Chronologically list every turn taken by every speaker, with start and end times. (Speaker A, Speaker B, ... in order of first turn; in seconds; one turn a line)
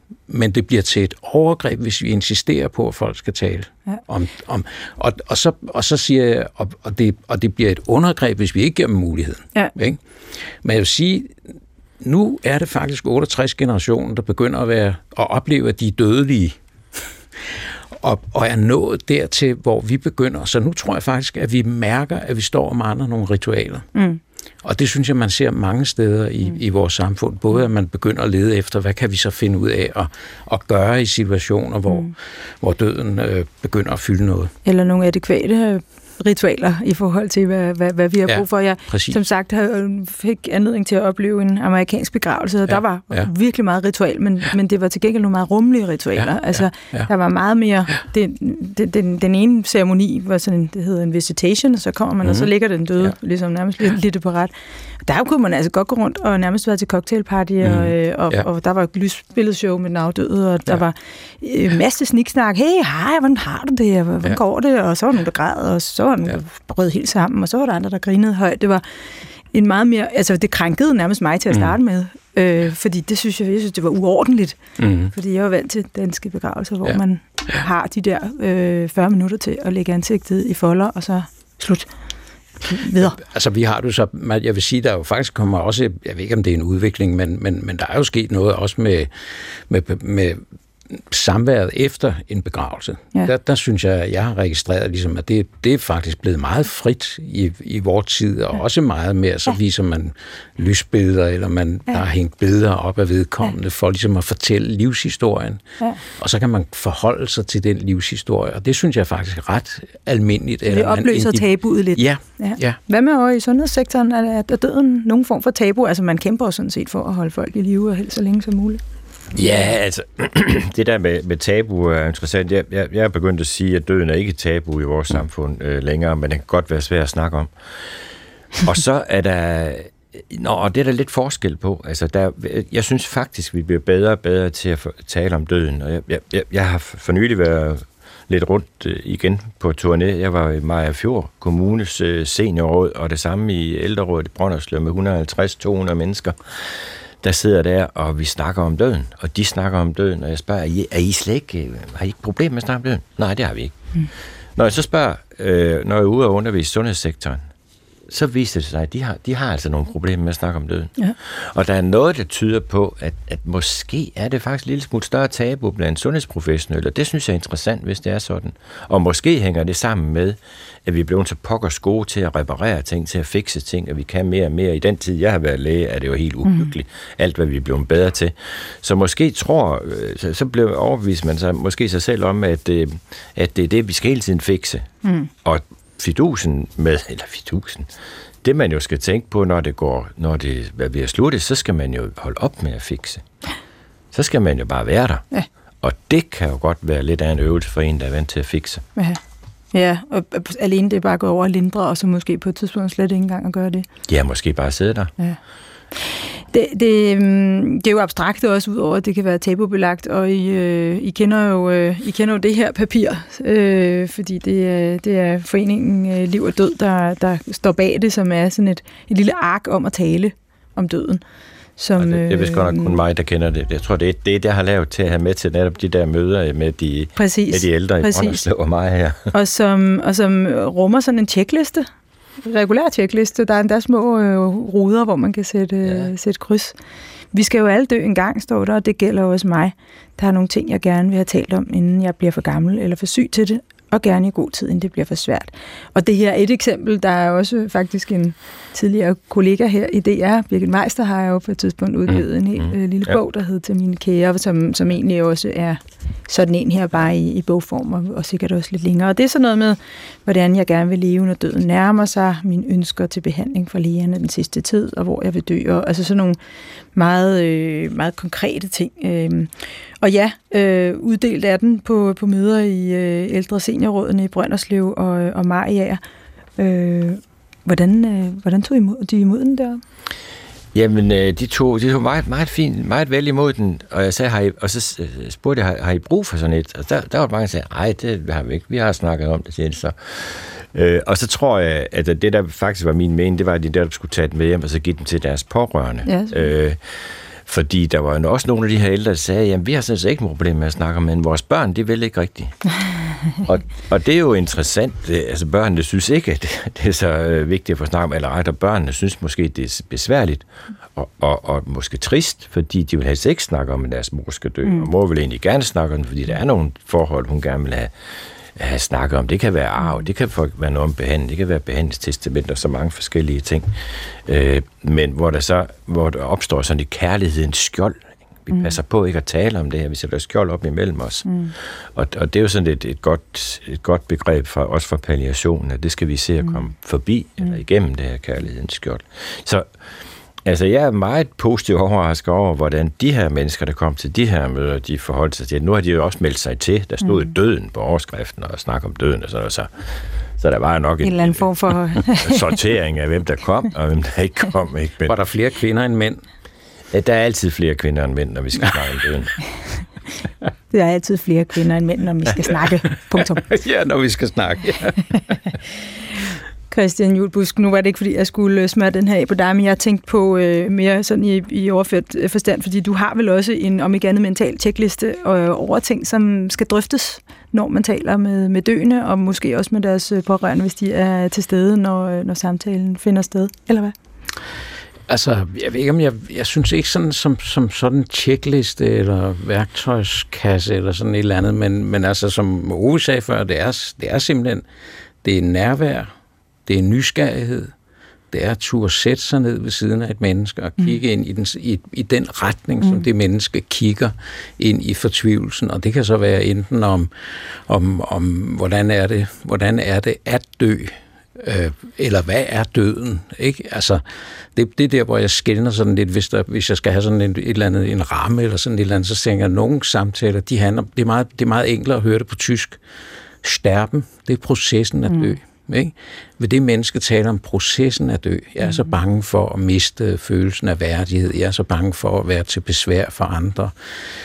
Speaker A: 0.3-10.0
Speaker A: 10.6-11.3
Speaker A: 12.0-16.6
Speaker A: 18.0-23.9
Speaker B: 23.9-24.2
Speaker A: 24.6-34.5
Speaker B: 31.9-32.1
Speaker B: 34.6-54.5
Speaker A: 38.3-39.2
Speaker A: 42.7-43.3
Speaker A: 46.2-47.1
Speaker A: 52.2-52.5
Speaker B: 55.0-68.8
Speaker A: 57.6-58.4
Speaker B: 69.5-74.6
Speaker A: 74.8-75.1
Speaker B: 75.1-81.9
Speaker B: 82.7-83.2
Speaker A: 83.0-90.4
Speaker A: 90.9-105.6
Speaker A: 106.2-112.8
Speaker B: 110.7-118.8
Speaker C: 119.3-127.5
Speaker C: 128.6-153.8
Speaker C: 154.6-157.4
Speaker C: 158.1-184.9
Speaker B: 176.4-176.7
Speaker B: 185.0-185.3
Speaker C: 185.4-187.9
Speaker C: 188.4-193.2
Speaker C: 194.1-195.2
Speaker C: 195.8-198.8
Speaker B: 199.7-203.8
Speaker C: 204.1-205.1
Speaker B: 206.0-221.2
Speaker B: 221.8-223.0
Speaker C: 222.0-229.3
Speaker B: 227.2-228.4
Speaker B: 229.3-231.9
Speaker B: 232.4-236.8
Speaker B: 237.3-266.4
Speaker C: 252.6-253.1
Speaker B: 266.9-276.0
Speaker B: 276.6-279.8
Speaker C: 280.7-302.6
Speaker B: 296.1-296.5
Speaker C: 303.4-317.9
Speaker C: 318.6-339.7
Speaker B: 331.3-331.5
Speaker C: 340.4-349.7
Speaker C: 350.4-351.4
Speaker B: 351.0-352.5
Speaker C: 352.1-355.1
Speaker A: 355.1-356.2
Speaker C: 356.9-359.3
Speaker B: 360.7-363.4
Speaker A: 363.1-365.6
Speaker B: 366.7-383.9
Speaker A: 385.1-394.6
Speaker A: 395.2-396.1
Speaker A: 396.6-397.7
Speaker A: 398.3-407.1
Speaker A: 407.7-414.0
Speaker A: 414.6-422.8
Speaker A: 423.4-433.7
Speaker B: 425.1-425.3